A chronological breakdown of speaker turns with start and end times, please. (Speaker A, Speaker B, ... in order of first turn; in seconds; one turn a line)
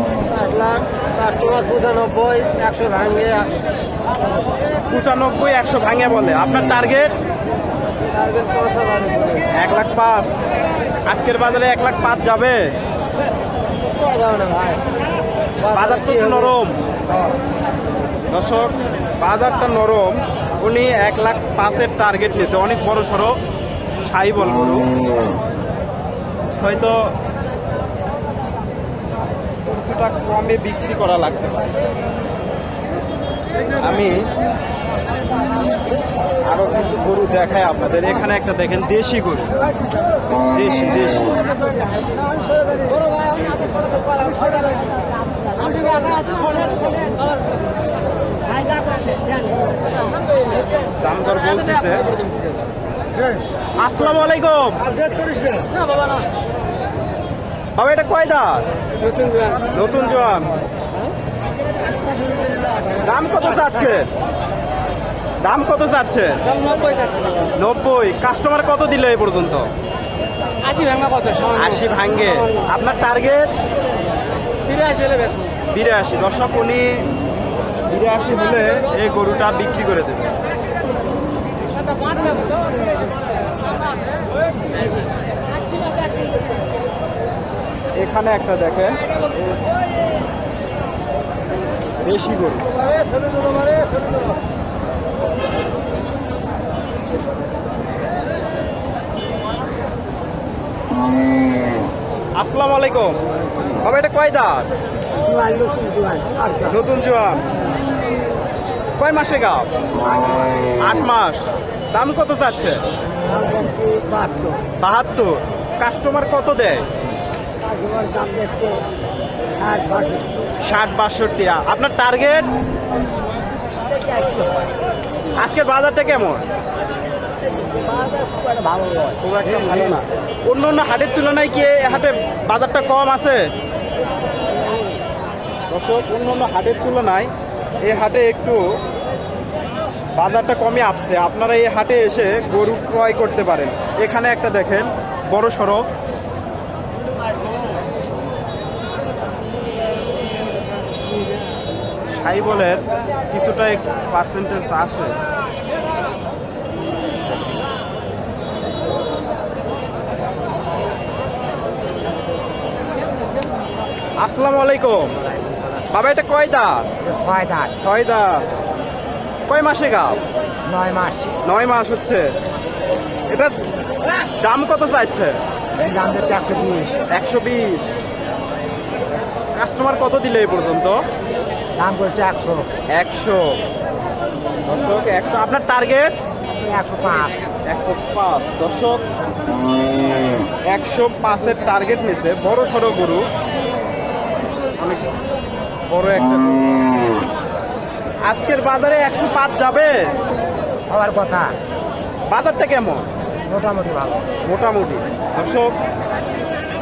Speaker A: 0.2-3.7
Speaker B: 4.9-7.1
Speaker A: 8.1-9.4
Speaker B: 9.5-10.3
Speaker B: 11.0-12.7
Speaker A: 14.0-14.8
Speaker B: 15.6-16.8
Speaker B: 18.3-23.4
Speaker B: 24.0-24.9
Speaker B: 26.5-27.1
Speaker B: 29.6-31.7
Speaker B: 33.8-34.3
Speaker B: 36.4-39.6
Speaker B: 40.5-41.3
Speaker B: 51.0-52.1
Speaker B: 53.8-54.9
Speaker A: 55.0-55.4
Speaker B: 57.7-58.6
Speaker A: 59.2-59.6
Speaker B: 59.7-60.5
Speaker B: 63.0-64.1
Speaker B: 65.4-66.5
Speaker A: 66.7-67.3
Speaker B: 67.5-69.7
Speaker A: 70.7-71.5
Speaker B: 71.5-73.5
Speaker A: 74.7-75.4
Speaker B: 75.7-77.0
Speaker B: 77.9-80.4
Speaker B: 88.0-89.0
Speaker B: 92.0-92.7
Speaker B: 102.4-103.2
Speaker B: 103.8-104.7
Speaker A: 105.3-106.6
Speaker B: 106.6-107.5
Speaker B: 109.0-109.7
Speaker B: 110.8-112.8
Speaker A: 113.4-114.6
Speaker B: 114.8-116.9
Speaker A: 117.8-118.8
Speaker A: 119.7-120.4
Speaker B: 120.6-122.5
Speaker C: 124.1-124.6
Speaker B: 125.4-126.4
Speaker C: 127.9-129.1
Speaker B: 129.2-133.5
Speaker B: 135.7-137.3
Speaker B: 137.8-138.6
Speaker B: 140.2-145.8
Speaker B: 152.1-155.2
Speaker B: 164.2-165.2
Speaker B: 165.9-166.9
Speaker C: 167.0-167.8
Speaker B: 167.8-168.4
Speaker B: 169.5-170.2
Speaker C: 170.7-171.4
Speaker B: 171.4-172.3
Speaker B: 173.3-173.6
Speaker B: 174.2-175.4
Speaker C: 175.8-177.0
Speaker B: 177.1-178.0
Speaker B: 179.5-181.0
Speaker C: 181.8-182.7
Speaker B: 182.9-183.6
Speaker B: 184.7-186.2
Speaker C: 186.6-187.4
Speaker B: 187.6-189.0
Speaker B: 190.6-193.3
Speaker B: 194.8-195.1
Speaker B: 195.9-196.7
Speaker B: 198.2-200.1
Speaker C: 200.9-201.6
Speaker B: 202.3-203.1
Speaker C: 203.5-204.3
Speaker B: 204.4-205.8